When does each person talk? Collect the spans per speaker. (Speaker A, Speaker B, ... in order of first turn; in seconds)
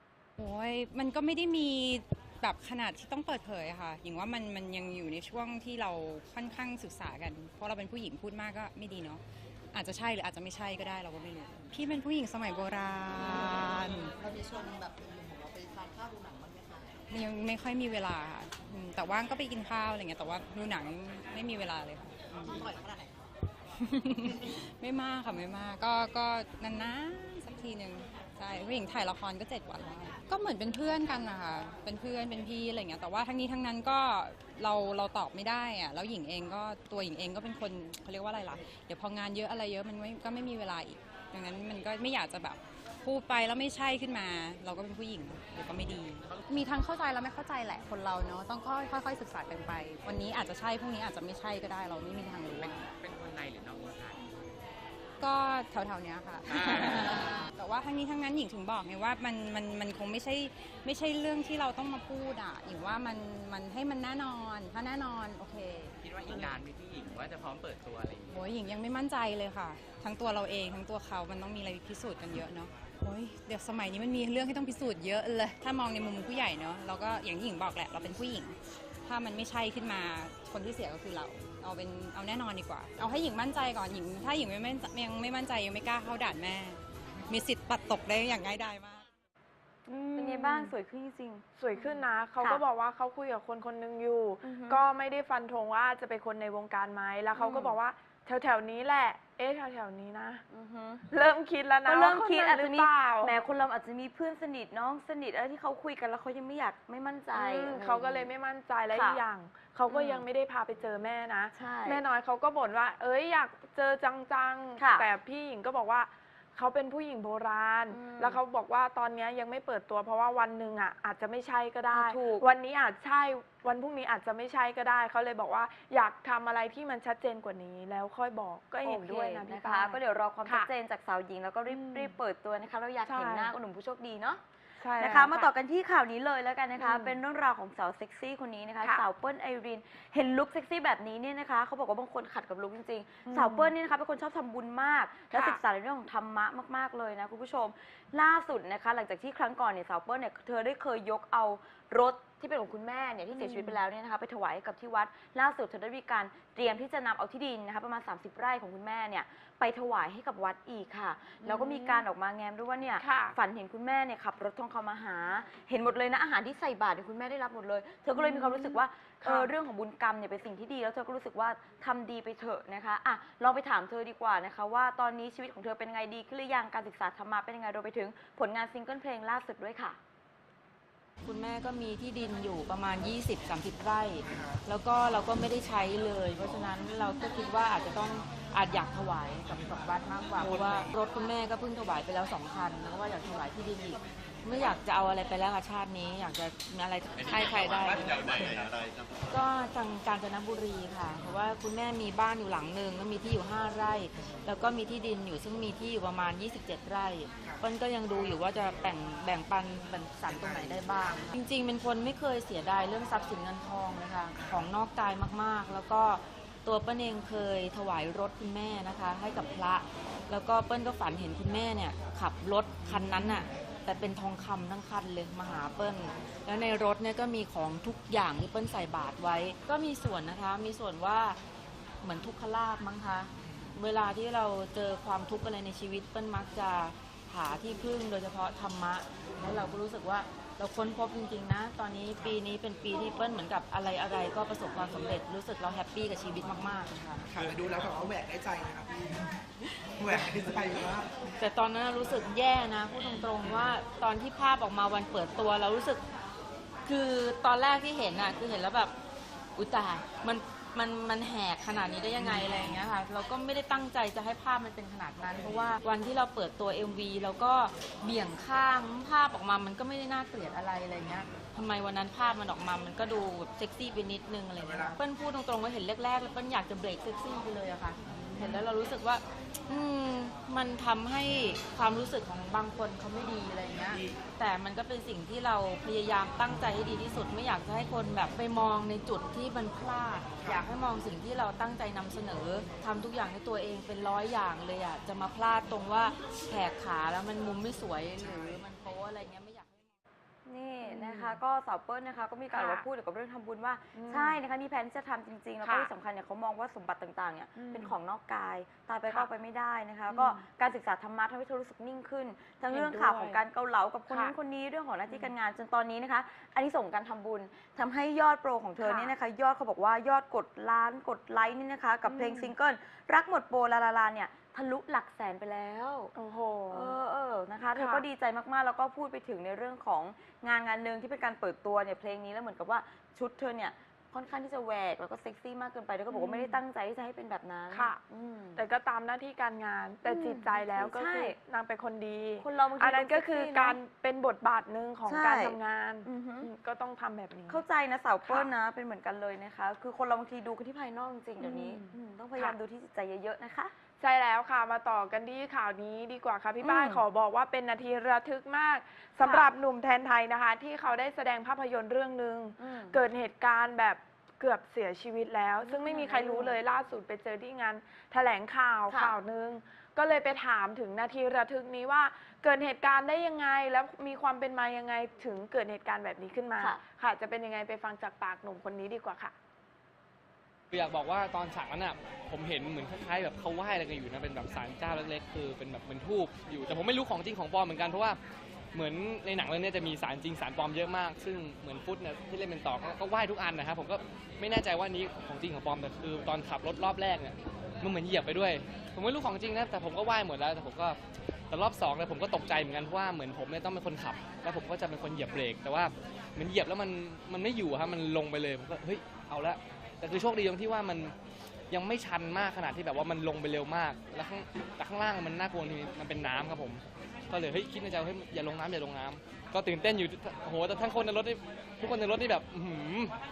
Speaker A: 0.4-9.2, 9.7-14.1, 17.1-22.8, 23.7-52.9, 55.2-66.6, 68.3-89.1
Speaker B: 45.8-46.6, 52.5-54.2, 66.0-68.3
Speaker C: 89.8-92.6, 94.4-94.8, 97.3-97.8, 100.5-101.0, 101.8-108.3, 108.9-109.2, 109.9-110.2, 111.5-112.0, 114.8-115.0, 117.9-118.4, 121.9-122.5, 128.8-134.4, 135.0-180.0, 300.4-326.1, 326.7-338.6, 340.1-341.4, 342.4-343.8, 345.1-346.5, 347.5-353.7, 356.6-357.0, 359.2-359.5, 362.6-363.0, 365.6-366.6, 368.9-369.1
Speaker D: 90.2-90.7, 91.5-100.4, 101.1-103.4, 107.3-130.7, 131.7-132.1, 133.0-133.5, 134.8-135.5, 136.8-137.2, 143.2-143.7, 145.3-145.6, 153.3-153.8, 161.4-162.1, 163.0-163.3, 168.1-169.5, 300.8-301.3, 302.5-302.9, 303.9-304.4, 305.6-305.9, 307.6-307.9, 310.1-310.4, 312.7-313.4, 318.8-319.1, 322.1-322.5, 326.1-326.9, 327.8-328.0, 336.1-336.6, 337.7-338.0, 338.6-347.6, 351.4-352.6, 354.0-379.3
Speaker E: 181.2-198.6, 199.3-231.4, 232.0-247.2, 250.0-250.3, 251.4-256.0, 256.9-258.9, 259.6-299.9
Speaker F: 190.4-190.9, 210.3-211.1, 247.3-249.2, 250.0-251.1, 253.4-253.7, 262.2-262.6, 298.2-298.5
Speaker G: 380.7-388.2, 388.7-401.0, 401.5-411.1, 411.7-423.1